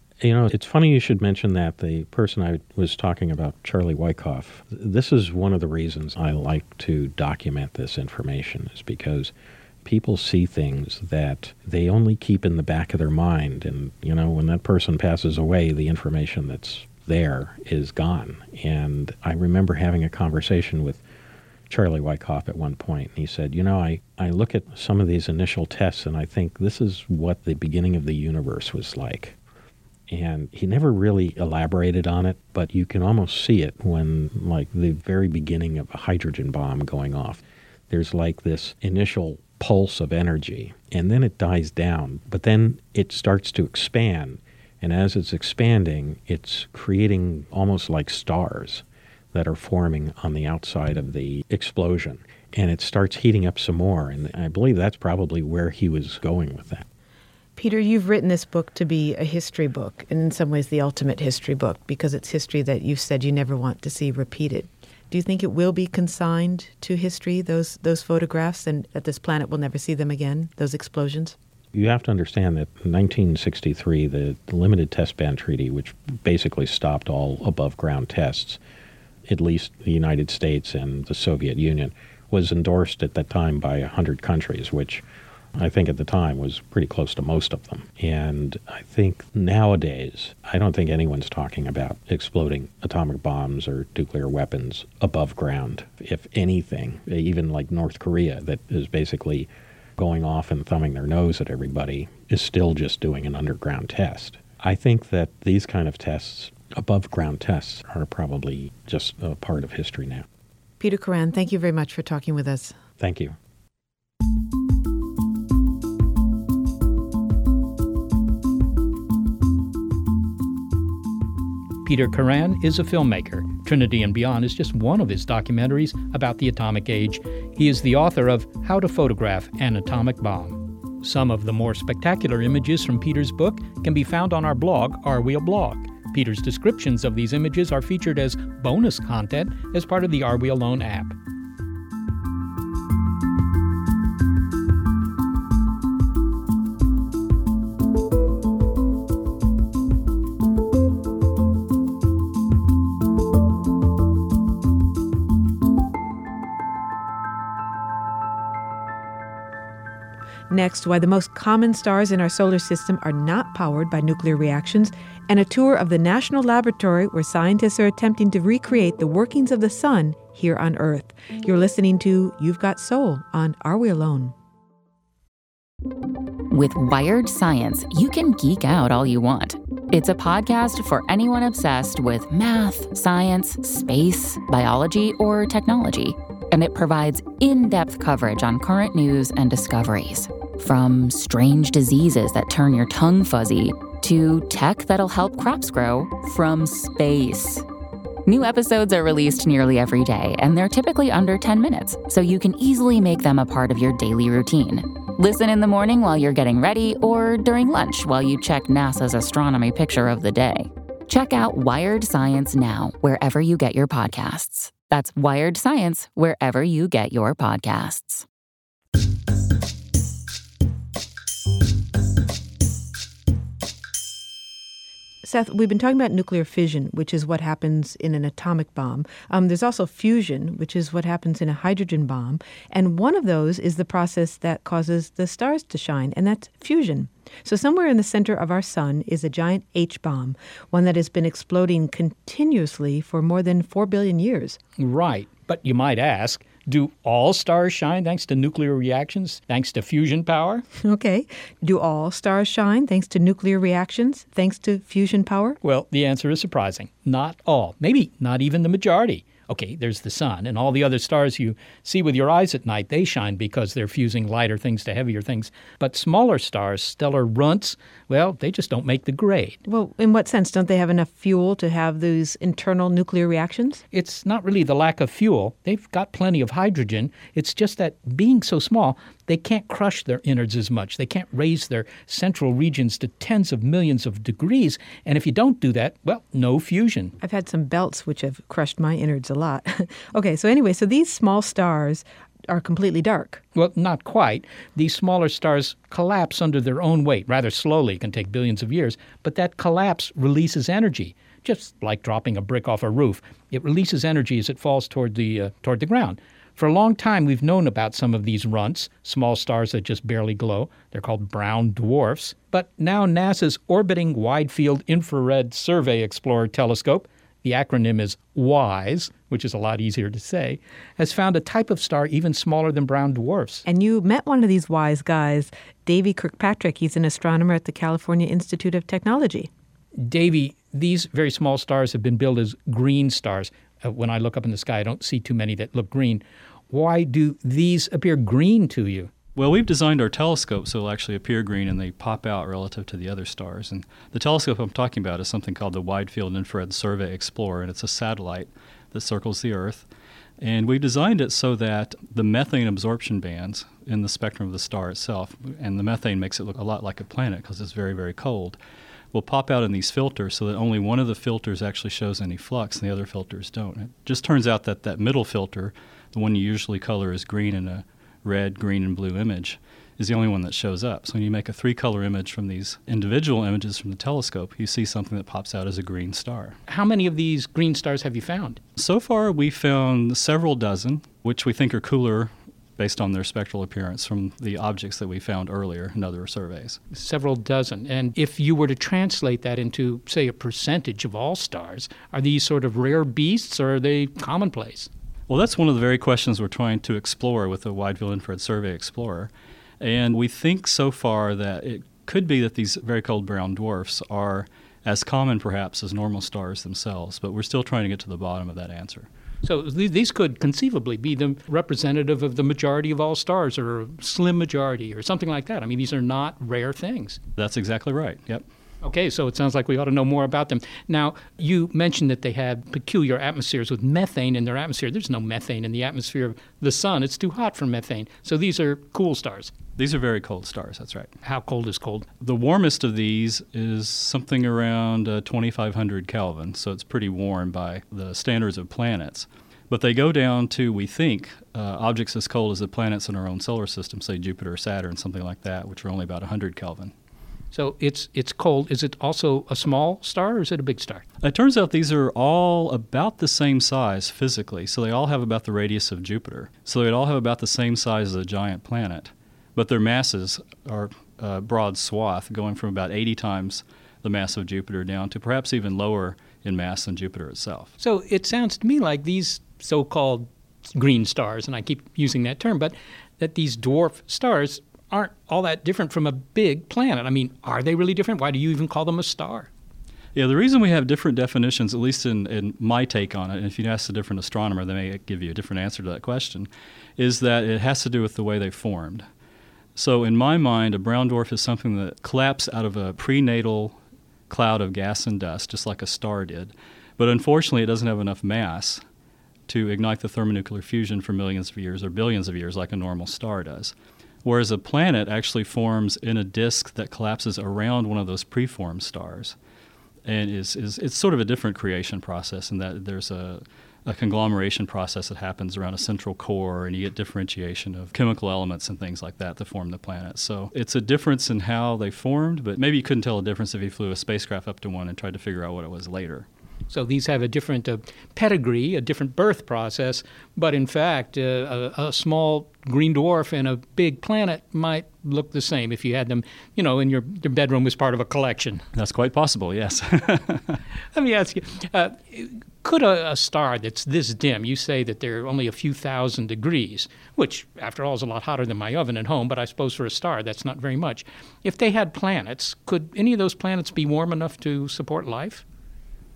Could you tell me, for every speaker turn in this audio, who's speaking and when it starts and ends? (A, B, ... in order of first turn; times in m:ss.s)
0:00.2-0:09.3 A
0:09.8-0:21.0 A
0:21.7-0:29.4 A
0:30.1-0:56.9 A
0:57.6-1:11.4 B
1:11.7-1:18.6 A
1:19.3-1:25.0 A
1:25.6-1:50.3 A
1:50.8-1:52.8 B
1:53.0-1:53.4 A
2:01.8-2:21.2 C
2:40.5-2:54.3 B
2:56.5-3:17.6 D
3:18.3-3:38.3 D
3:45.2-4:04.6 B
4:04.8-4:10.6 C
4:10.8-4:15.6 B
4:15.6-4:29.6 C
4:29.7-4:33.8 B
4:33.9-4:47.2 C
4:47.2-4:53.4 B
4:53.6-5:23.6 C
5:23.7-5:29.5 B
5:30.0-5:39.1 C
5:39.4-5:49.9 E
5:50.4-5:58.6 E
5:59.1-6:16.6 E
6:16.7-6:18.6 C
6:18.8-6:26.8 E
6:26.9-6:34.9 C
6:35.3-6:49.1 E
6:49.4-6:57.2 C
6:57.4-6:58.4 E
6:58.8-7:09.5 C
7:09.8-7:11.1 E
7:11.2-7:12.1 C
7:12.2-7:26.9 E
7:27.5-7:31.0 C
7:31.2-7:47.8 E
7:47.8-7:59.5 C
8:00.2-8:09.1 E
8:09.8-8:13.8 E
8:14.3-8:18.8 E
8:19.5-8:29.4 E
8:30.0-8:46.3 E
8:46.7-8:58.6 C
8:58.8-9:00.6 E
9:00.9-9:15.4 C